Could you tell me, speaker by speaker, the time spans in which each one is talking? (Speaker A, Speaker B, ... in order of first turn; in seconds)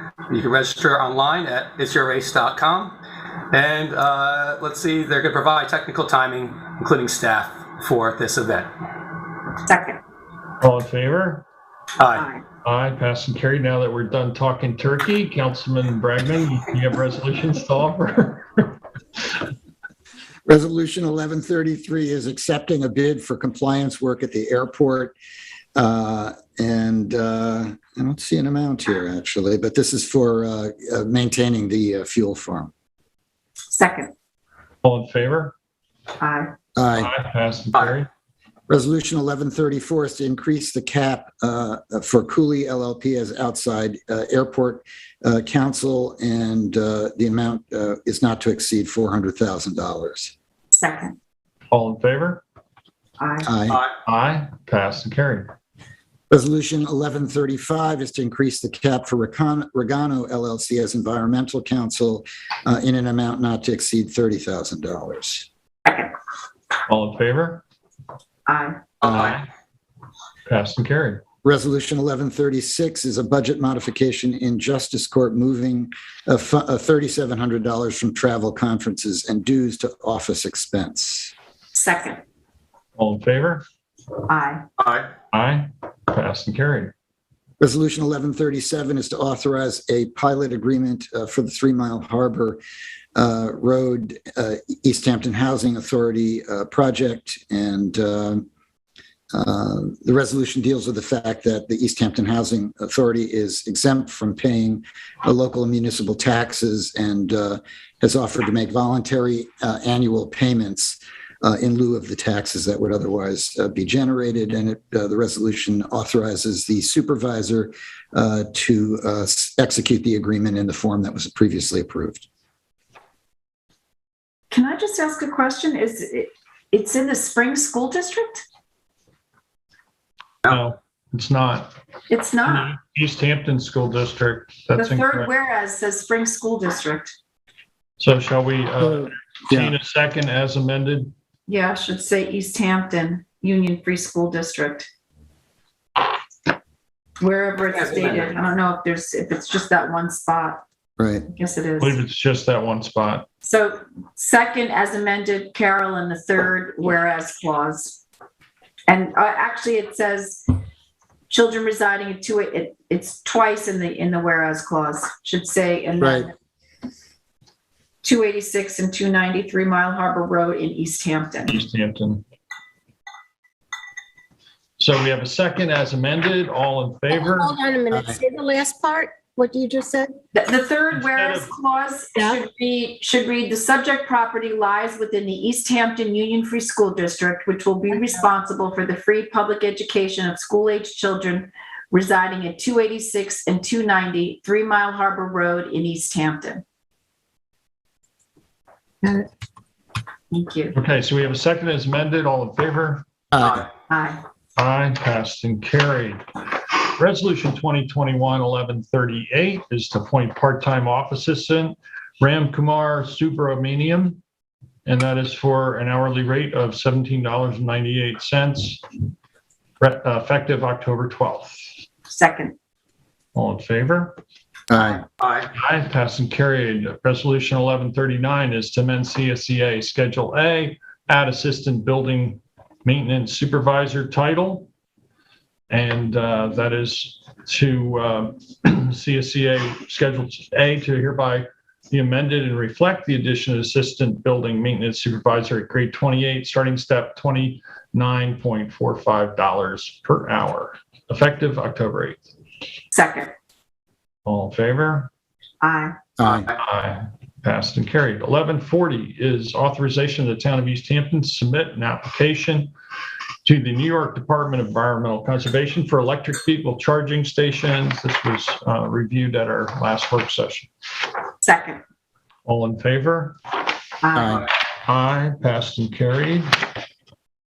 Speaker A: 0.3-3.0, 3.5-8.7, 12.0-12.2, 84.8-85.1, 147.8-148.3
Speaker B: 9.7-10.0, 12.1-12.4, 33.7-34.1, 36.2-36.5, 50.7-51.1, 53.2-53.5, 65.8-66.1, 68.5-68.9, 81.7-82.2, 84.3-84.6, 124.5-128.4, 132.1-132.7, 134.7-137.1, 141.5-144.9, 147.2-150.6, 151.3-152.0, 153.4-158.0, 158.9-160.5, 161.3-166.3, 168.0-171.6, 180.3-196.6, 200.3-200.8, 203.9-204.2, 222.1-222.5, 252.9-253.3, 255.6-255.9, 271.4-271.8, 274.0-274.4
Speaker C: 10.6-11.4, 12.6-19.5, 34.8-35.5, 37.0-38.1, 51.7-52.4, 54.0-55.5, 66.9-67.6, 69.0-69.5, 70.5-71.2, 83.0-83.6, 85.3-86.9, 130.4-131.7, 132.4-135.3, 138.0-141.1, 151.8-153.3, 171.5-172.2, 174.8-177.5, 180.9-181.5, 200.7-203.0, 204.6-214.2, 214.8-218.8, 219.8-221.7, 223.3-224.2, 225.5-234.7, 235.7-252.2, 254.2-255.1, 256.5-262.7, 263.4-270.7, 272.4-273.4, 274.8-276.5
Speaker D: 20.4-25.1, 25.7-32.7, 36.8-37.1, 38.7-50.3, 53.4-53.8, 56.3-65.5, 71.4-81.3, 87.6-92.6, 93.1-98.4, 99.3-122.2, 139.5-139.7, 151.0-151.2, 166.0-166.3, 177.9-178.2, 203.3-203.7, 224.7-225.0, 256.2-256.5, 274.1-274.5
Speaker E: 177.2-180.2, 182.2-182.4, 199.0-199.3